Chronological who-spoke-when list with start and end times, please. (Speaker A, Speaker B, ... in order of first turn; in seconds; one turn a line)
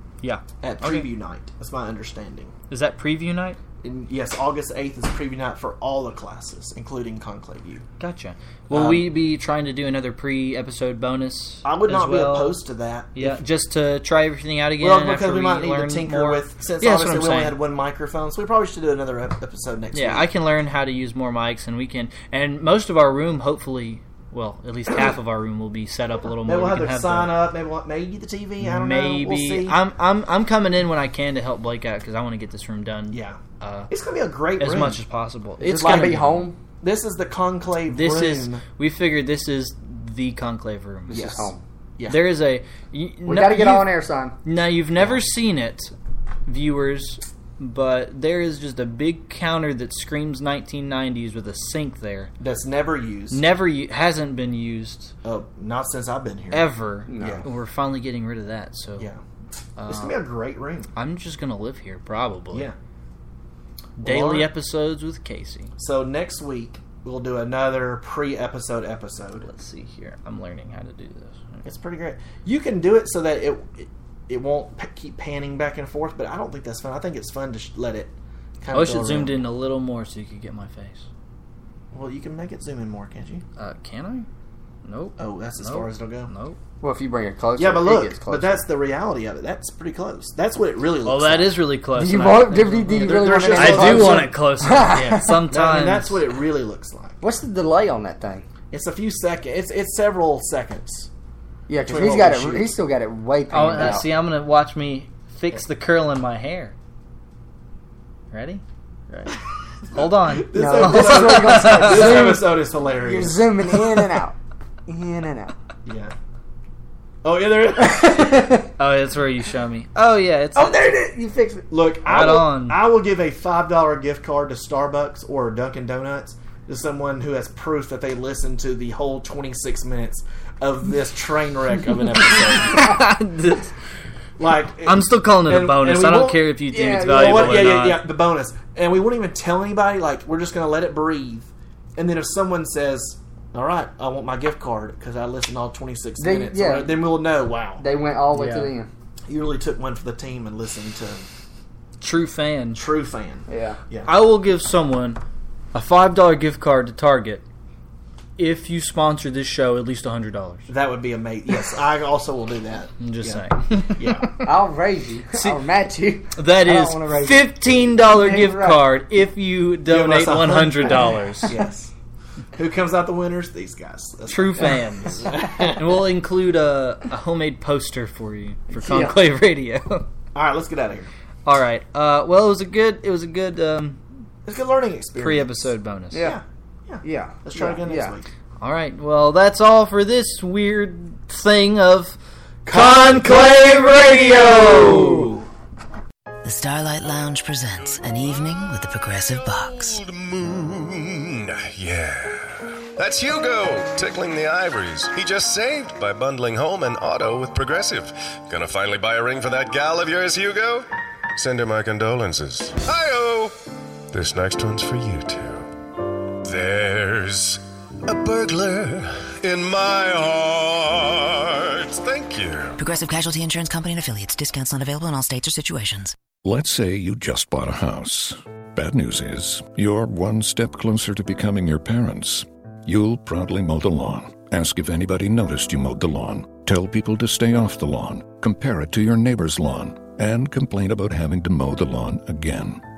Speaker A: 0.2-1.1
Speaker B: 0.6-2.5
Speaker A: 2.7-3.6
Speaker B: 3.8-7.8
Speaker A: 8.0-12.6
Speaker B: 8.7-9.1
Speaker B: 11.6-13.4
Speaker A: 13.1-17.6
Speaker B: 14.8-20.3
Speaker A: 19.9-27.4
Speaker B: 26.4-29.8
Speaker A: 28.6-33.9
Speaker B: 33.1-35.0
Speaker A: 34.6-36.5
Speaker C: 35.6-36.6
Speaker B: 35.7-38.6
Speaker A: 37.9-41.2
Speaker C: 41.1-41.6
Speaker B: 41.1-42.3
Speaker A: 42.0-45.9
Speaker C: 43.2-44.4
Speaker B: 45.0-45.2
Speaker A: 46.5-52.3
Speaker B: 52.4-53.4
Speaker A: 53.3-55.1
Speaker B: 55.2-57.4
Speaker A: 56.5-59.1
Speaker C: 57.1-57.5
Speaker A: 59.8-60.2
Speaker B: 59.9-60.9
Speaker A: 60.9-62.7
Speaker A: 64.0-65.7
Speaker B: 64.0-64.5
Speaker B: 65.8-69.5
Speaker A: 69.4-71.6
Speaker B: 71.6-79.5
Speaker A: 78.7-81.0
Speaker B: 81.9-83.4
Speaker A: 83.6-84.3
Speaker A: 84.8-86.6
Speaker B: 85.2-86.3
Speaker C: 86.8-88.6
Speaker B: 87.6-91.6
Speaker A: 91.0-96.2
Speaker C: 91.9-95.4
Speaker B: 92.9-94.4
Speaker B: 94.9-97.2
Speaker C: 97.2-98.5
Speaker B: 98.7-101.1
Speaker C: 101.7-104.1
Speaker B: 101.8-102.8
Speaker A: 103.5-106.7
Speaker A: 108.3-112.5
Speaker B: 109.9-113.8
Speaker C: 110.5-115.5
Speaker B: 115.8-116.1
Speaker B: 117.2-118.5
Speaker C: 117.8-118.7
Speaker A: 118.8-120.9
Speaker C: 120.5-121.7
Speaker B: 121.7-133.0
Speaker A: 122.0-122.8
Speaker A: 132.3-133.7
Speaker B: 134.4-147.8
Speaker A: 134.8-138.0
Speaker C: 136.7-137.6
Speaker C: 146.2-147.1
Speaker C: 147.8-148.9
Speaker A: 148.3-148.7
Speaker B: 149.3-151.2
Speaker A: 152.0-152.8
Speaker B: 152.7-154.1
Speaker C: 153.5-153.8
Speaker A: 154.1-155.2
Speaker A: 155.7-157.4
Speaker A: 158.4-160.7
Speaker B: 160.7-164.3
Speaker A: 163.0-164.5
Speaker C: 164.4-168.9
Speaker A: 165.3-165.6
Speaker A: 166.3-171.6
Speaker B: 169.8-171.9
Speaker B: 172.5-175.9
Speaker A: 174.3-180.1
Speaker C: 178.7-179.2
Speaker B: 180.3-181.1
Speaker A: 181.4-184.0
Speaker B: 184.4-188.3
Speaker A: 185.2-186.3
Speaker C: 186.1-186.4
Speaker C: 187.0-188.1
Speaker A: 188.6-195.4
Speaker B: 192.6-193.6
Speaker C: 194.8-195.3
Speaker D: 196.4-200.0
Speaker E: 199.8-213.5
Speaker E: 214.1-215.7
Speaker E: 216.4-222.8
Speaker D: 222.8-226.1
Speaker F: 226.4-242.8